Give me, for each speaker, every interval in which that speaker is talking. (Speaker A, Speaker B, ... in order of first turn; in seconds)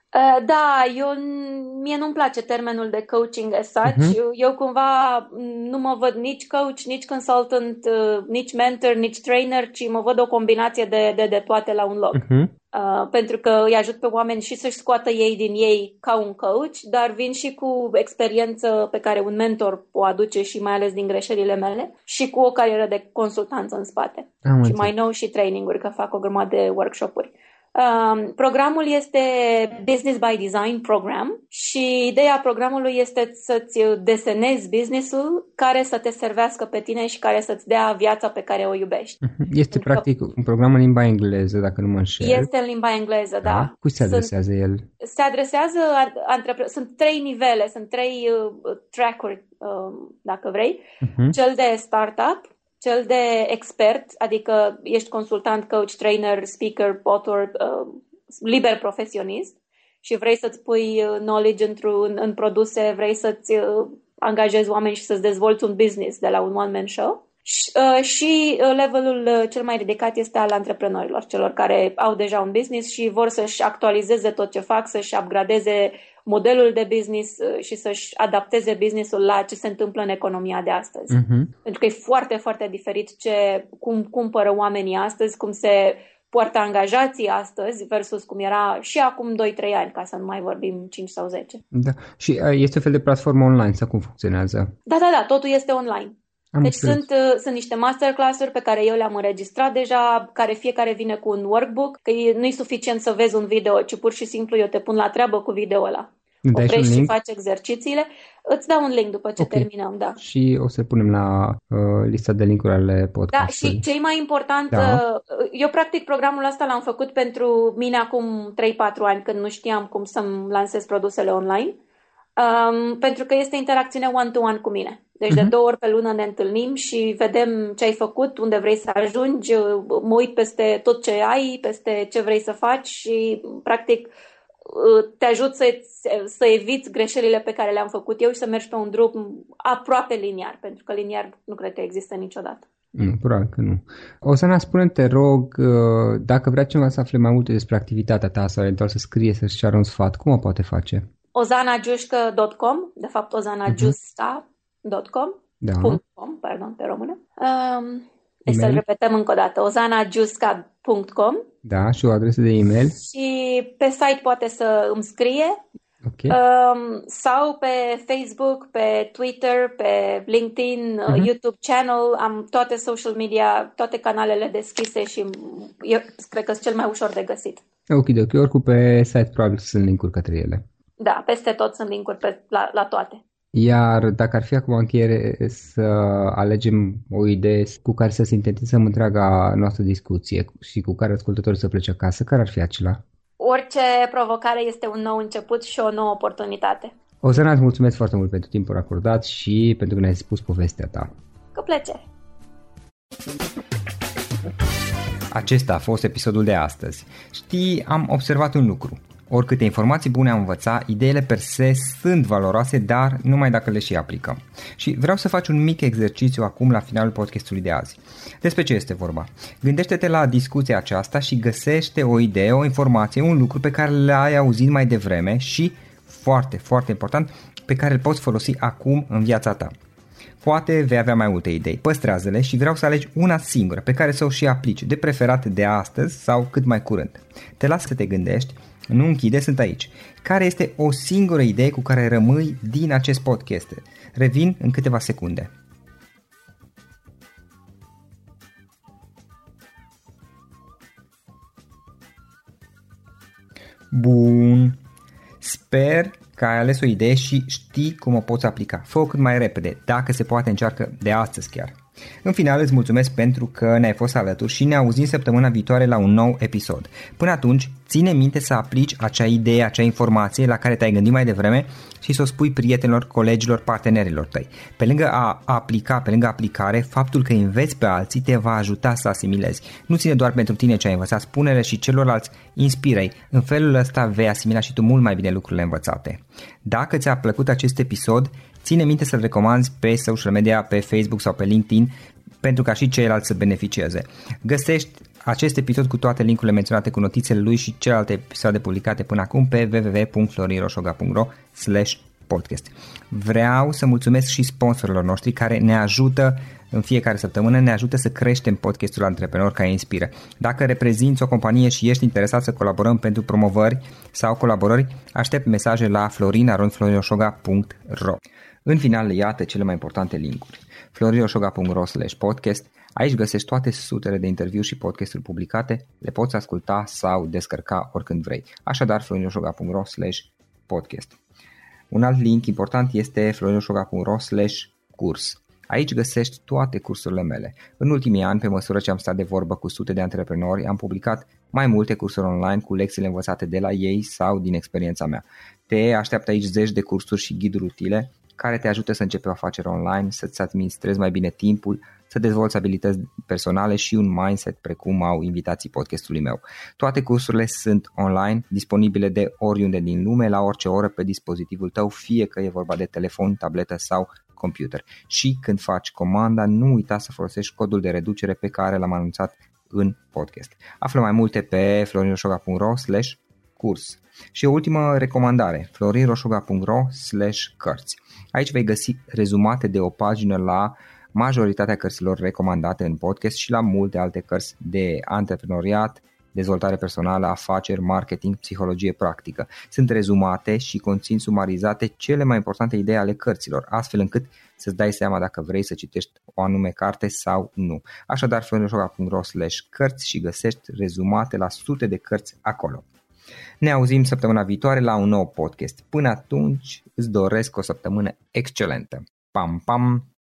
Speaker A: 0.1-12.2, 12.7-39.2, 39.7-40.1, 42.2-44.3, 45.0-91.6, 94.9-110.2, 113.3-121.8, 122.4-134.1, 134.7-142.7, 151.3-161.4, 162.9-165.6, 166.3-177.6, 181.0-183.2, 193.4-196.9, 201.6-202.0
Speaker B: 3.9-4.2, 12.1-12.5, 24.4-24.9, 39.2-42.5, 43.4-44.9, 51.0-51.4, 81.1-81.5, 91.7-94.7, 96.5-97.0, 106.4-107.1, 109.4-109.7, 110.2-113.8, 114.7-115.0, 142.9-151.1, 153.7-153.9, 155.6-156.0, 158.5-158.8, 161.6-162.9, 166.0-166.4, 177.9-180.6, 183.5-193.0, 197.2-201.1
Speaker C: 205.3-229.7, 230.4-245.5, 253.9-254.8, 255.4-331.2, 331.9-402.9, 403.6-410.1